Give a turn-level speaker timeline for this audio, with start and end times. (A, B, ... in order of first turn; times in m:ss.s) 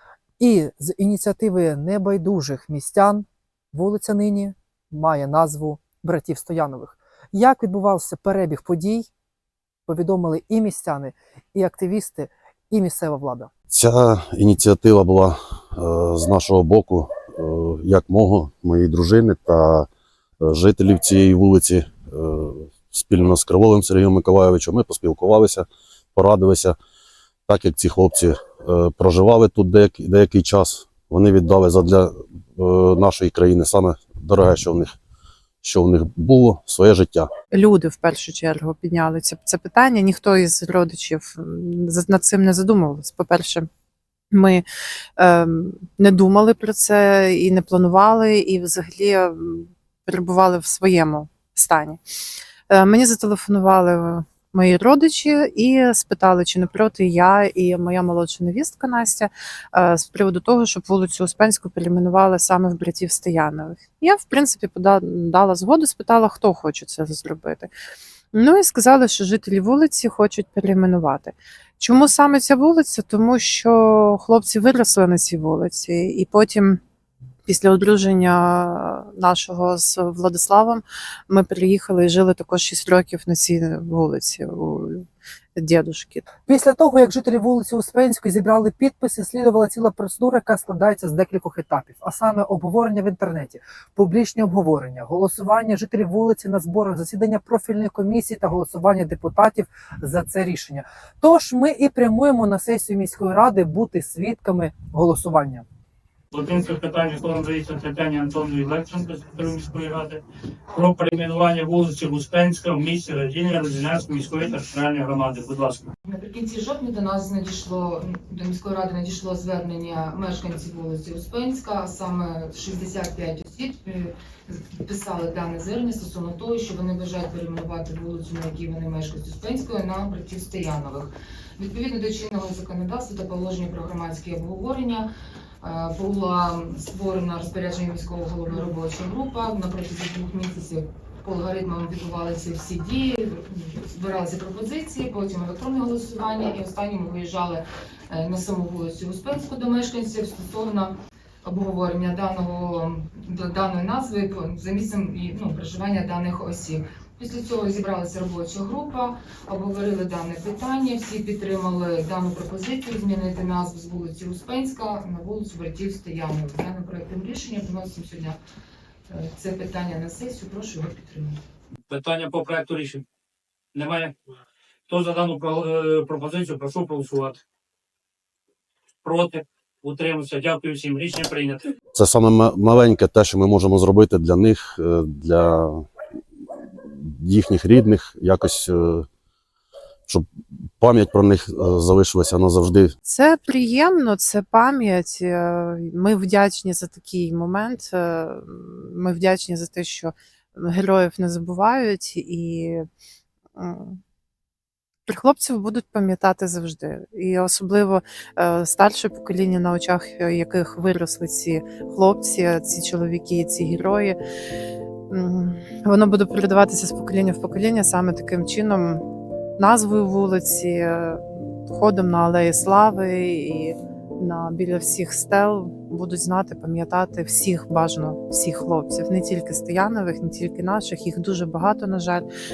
0:00.4-0:09.1 A
0:09.8-0:13.5 A
0:13.7-0:19.9 B
0:20.4-0:26.8 B
0:27.5-0:34.9 B
0:35.6-0:37.3 B
0:37.5-0:43.7 C
0:44.3-0:44.6 C
0:45.2-0:52.0 C
0:52.7-1:07.7 C
1:08.3-1:16.8 C
1:17.5-1:26.3 C
1:26.4-1:45.6 A
1:46.3-1:55.9 D
1:56.0-2:15.1 E
2:15.6-2:30.9 E
2:31.4-2:48.4 E
2:49.1-2:51.4 E
2:51.9-2:53.0 D
2:53.7-2:54.1 D
2:54.9-2:57.4 D
2:59.0-3:01.7 D
3:01.9-3:05.8 B
3:06.8-3:09.0 B
3:10.8-3:12.9 B
3:13.0-3:22.8 C
3:23.5-3:24.0 C
3:25.0-3:34.2 C
3:35.1-3:39.0 C
3:39.6-3:52.2 C